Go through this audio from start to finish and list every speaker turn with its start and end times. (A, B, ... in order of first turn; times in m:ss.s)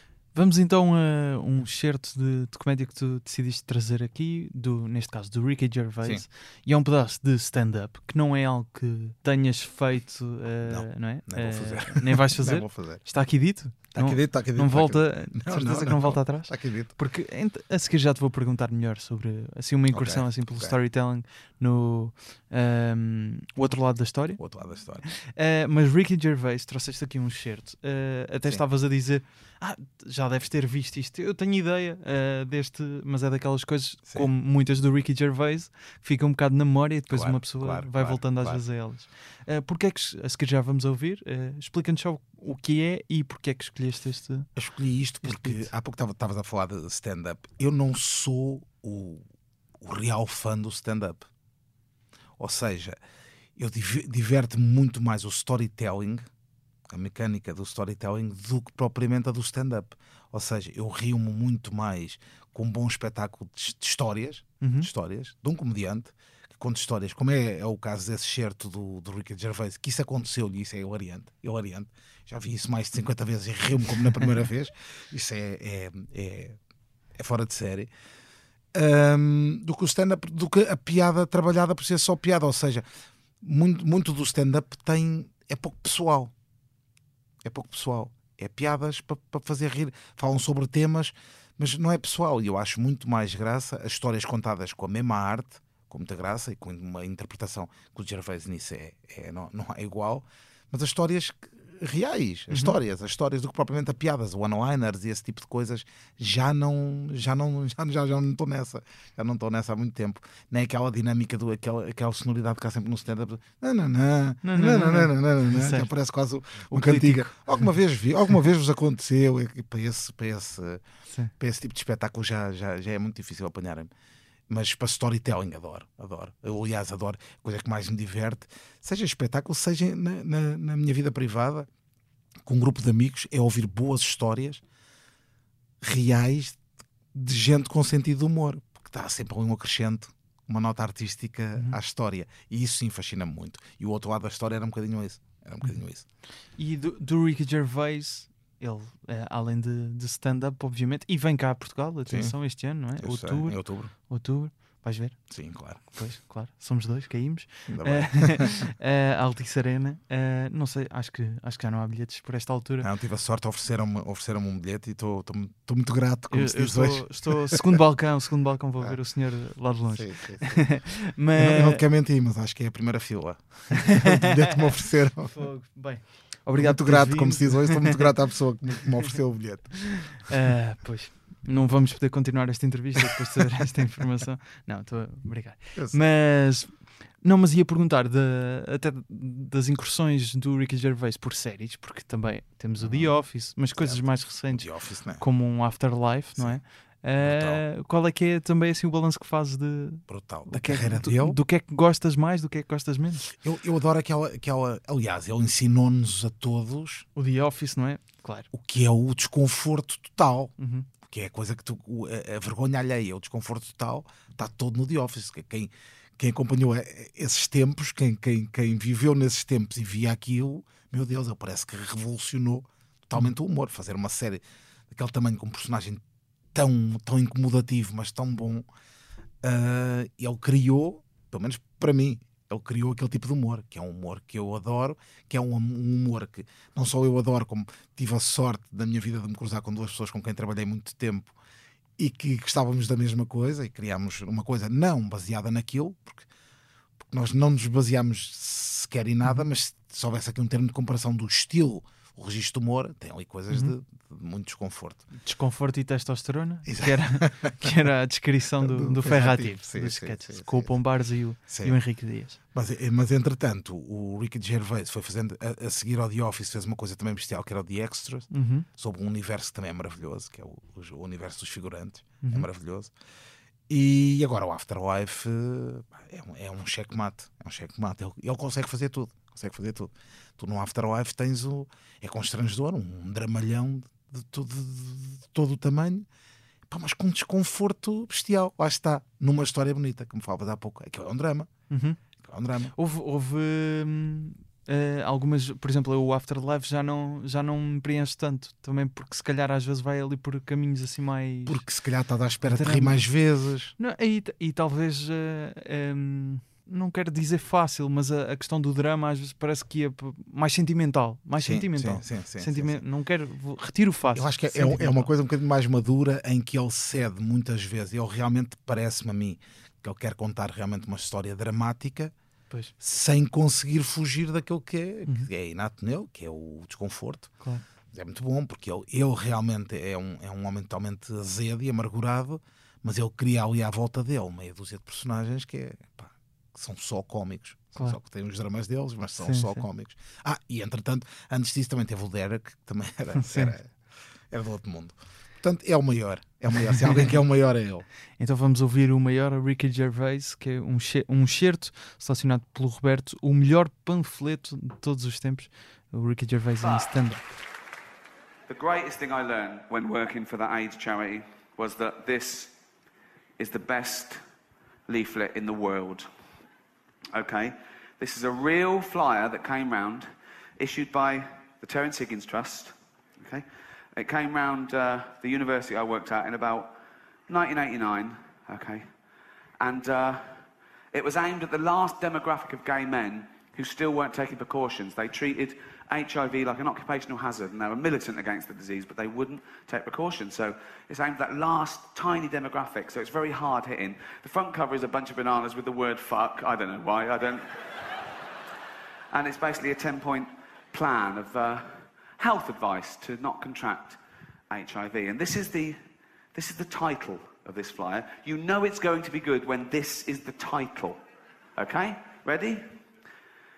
0:00.3-0:24.4 A
0:10.6-0:13.0 B
0:13.9-0:16.9 B
0:19.9-0:20.7 B
0:24.4-0:25.0 B
0:25.0-0:44.5 A
0:37.1-0:38.6 B
0:44.6-0:49.2 B
0:45.2-0:45.7 A
0:49.8-0:51.3 B
0:52.4-0:53.0 B
0:53.6-0:56.3 B
0:56.9-1:16.6 B
1:04.6-1:04.9 A
1:17.2-1:17.9 B
1:18.7-1:22.8 B
1:23.4-1:26.3 B
1:27.4-2:00.8 B
1:54.4-1:55.9 A
1:56.7-1:57.7 A
2:01.4-2:03.9 B
2:04.5-2:11.7 B
2:12.4-2:14.6 B
2:15.8-2:16.6 B
2:17.1-2:26.0 B
2:26.5-2:35.3 A
2:32.1-2:32.4 B
2:33.0-2:33.9 B
2:35.3-2:35.9 B
2:35.8-2:42.9 A
2:37.7-2:38.6 B
2:42.8-2:47.8 B
2:46.3-2:51.8 A
2:49.9-2:50.8 B
2:51.4-2:55.4 B
2:55.3-2:58.1 A
2:56.6-3:00.2 B
2:59.9-3:23.3 A
3:12.8-3:15.2 B
3:16.4-3:16.6 B
3:17.2-3:17.6 B
3:20.1-3:21.4 B
3:23.3-3:27.0 B
3:27.2-3:28.5 A
3:28.5-3:46.0 B
3:30.6-3:30.9 A
3:46.5-3:48.7 B
3:49.4-4:01.3 B
4:02.0-4:06.3 B
4:07.0-4:15.0 B
4:15.2-4:22.4 A
4:16.6-4:17.7 B
4:18.6-4:20.7 B
4:21.5-4:21.8 B
4:22.5-4:32.9 B
4:28.3-4:28.6 A
4:32.2-4:32.5 A
4:33.7-4:46.1 B
4:46.7-4:51.5 B
4:51.7-4:52.0 A
4:52.2-4:52.7 B
4:52.7-5:01.6 A
5:01.5-5:03.7 B
5:02.4-5:03.0 A
5:03.8-5:15.1 A
5:11.4-5:12.8 B
5:14.1-5:22.1 B
5:22.8-5:27.3 B
5:27.9-5:43.7 B
5:39.2-5:39.6 A
5:43.2-5:43.6 A
5:44.3-5:47.8 B
5:48.2-5:57.3 A
5:58.5-6:02.5 C
6:03.4-6:04.2 C
6:04.9-6:06.1 C
6:07.1-6:16.8 C
6:17.3-6:18.9 C
6:19.6-6:20.4 C
6:20.9-6:37.8 C
6:39.1-6:45.8 C
6:46.3-6:51.0 C
6:51.6-6:52.8 C